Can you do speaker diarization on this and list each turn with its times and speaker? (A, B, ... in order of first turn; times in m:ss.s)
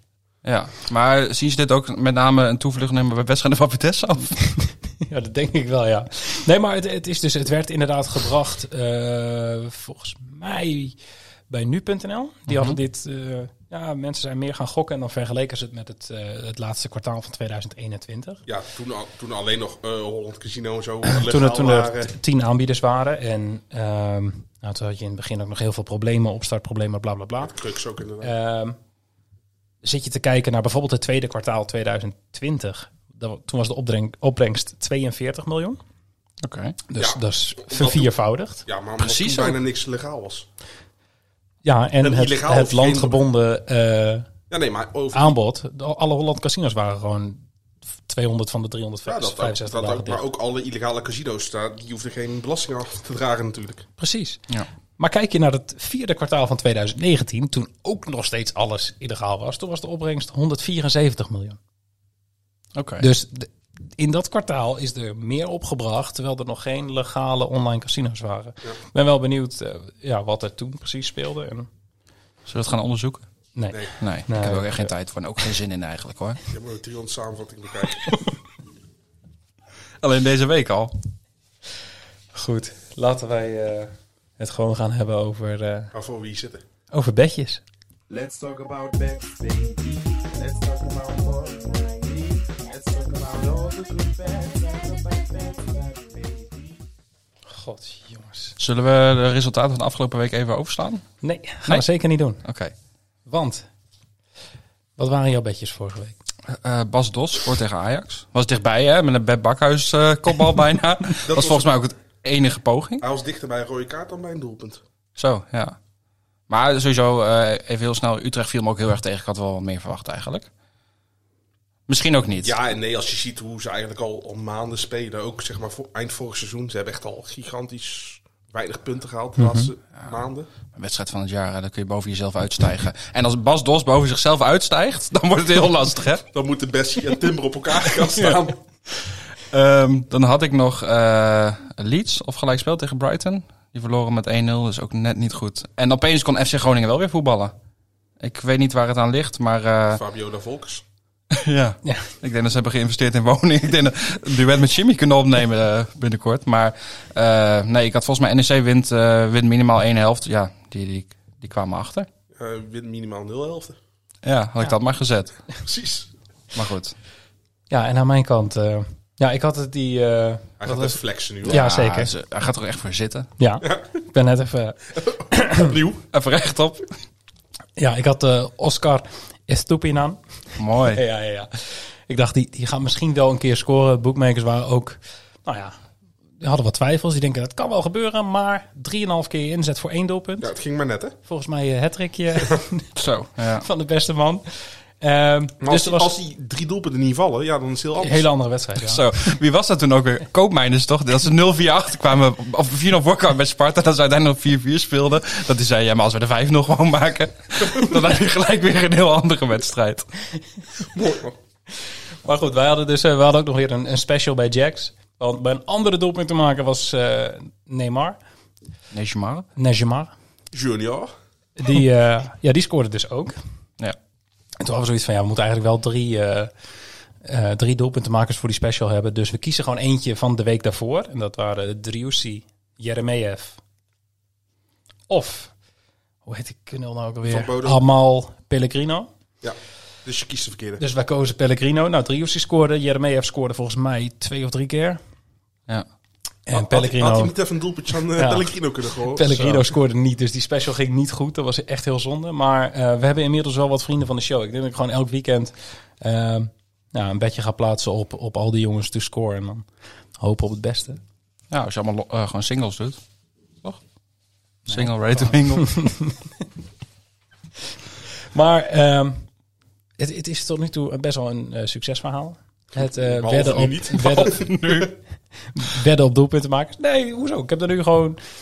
0:00.4-0:04.4 A
0:04.6-0:11.0 B
0:11.5-0:18.4 B
0:12.5-0:12.8 A
0:18.5-0:22.1 C
0:21.0-0:27.6 B
0:27.4-0:28.3 C
0:28.2-0:28.8 B
0:29.8-0:35.8 B
0:36.4-0:36.8 A
0:36.9-0:38.6 B
0:37.0-0:38.1 C
0:38.6-0:40.5 C
0:39.0-0:39.6 A
0:41.6-0:44.3 B
0:42.0-0:43.2 C
0:44.5-0:45.4 C
0:45.1-0:47.4 B
0:48.1-0:50.2 B
0:49.1-0:53.9 C
0:54.0-0:54.4 B
0:55.0-1:01.6 B
1:02.8-1:03.1 A
1:03.0-1:11.7 B
1:12.5-1:13.3 A
1:13.6-1:14.9 B
1:14.0-1:16.4 A
1:16.5-1:18.2 C
1:20.0-1:20.9 A
1:22.3-1:25.9 B
1:25.9-1:26.6 C
1:26.9-1:27.6 B
1:28.1-1:36.7 D
1:37.5-1:38.6 B
1:38.6-1:41.1 A
1:41.2-1:42.4 B
1:42.4-1:42.7 A
1:43.3-1:43.7 B
1:45.0-1:46.2 B
1:46.5-1:53.0 A
1:51.2-1:51.7 C
1:53.0-1:54.8 C
1:55.2-1:55.8 A
1:56.5-2:00.5 A
2:01.9-2:02.6 A
2:02.4-2:10.5 C
2:09.4-2:09.7 B
2:10.7-2:16.3 A
2:16.3-2:18.6 C
2:18.0-2:27.5 A
2:28.2-2:30.0 A
2:29.9-2:30.8 C
2:31.3-2:42.1 A
2:42.4-2:43.8 C
2:44.2-2:45.3 A
2:45.6-2:46.1 C
2:46.5-2:47.0 A
2:47.7-2:52.1 B
2:50.6-2:51.6 C
2:51.5-2:53.3 A
2:53.4-2:55.7 B
2:53.6-2:53.9 C
2:55.0-2:56.0 C
2:56.1-2:56.9 A
2:57.8-3:00.2 B
3:00.6-3:01.0 A
3:00.8-3:05.8 B
3:06.4-3:10.5 B
3:10.4-3:11.2 C
3:11.3-3:12.9 B
3:13.0-3:13.7 A
3:13.5-3:16.1 B
3:15.6-3:18.3 C
3:18.0-3:19.0 B
3:18.8-3:30.1 A
3:30.8-3:31.4 C
3:32.2-3:38.2 B
3:38.9-3:39.5 A
3:39.6-3:40.1 B
3:40.5-3:41.1 C
3:41.6-3:43.4 B
3:44.6-3:46.5 B
3:47.2-3:53.6 B
3:55.1-3:55.5 B
3:56.3-3:59.1 B
3:57.2-3:57.8 C
3:59.4-4:00.8 C
4:00.8-4:05.0 B
4:06.5-4:07.3 B
4:06.5-4:09.7 C
4:08.2-4:19.7 B
4:20.2-4:21.0 B
4:21.5-4:23.0 A
4:24.7-4:26.2 B
4:24.7-4:25.9 A
4:28.3-4:29.3 B
4:30.0-4:34.5 B
4:32.7-4:34.9 C
4:34.1-4:34.9 A
4:35.5-4:38.2 B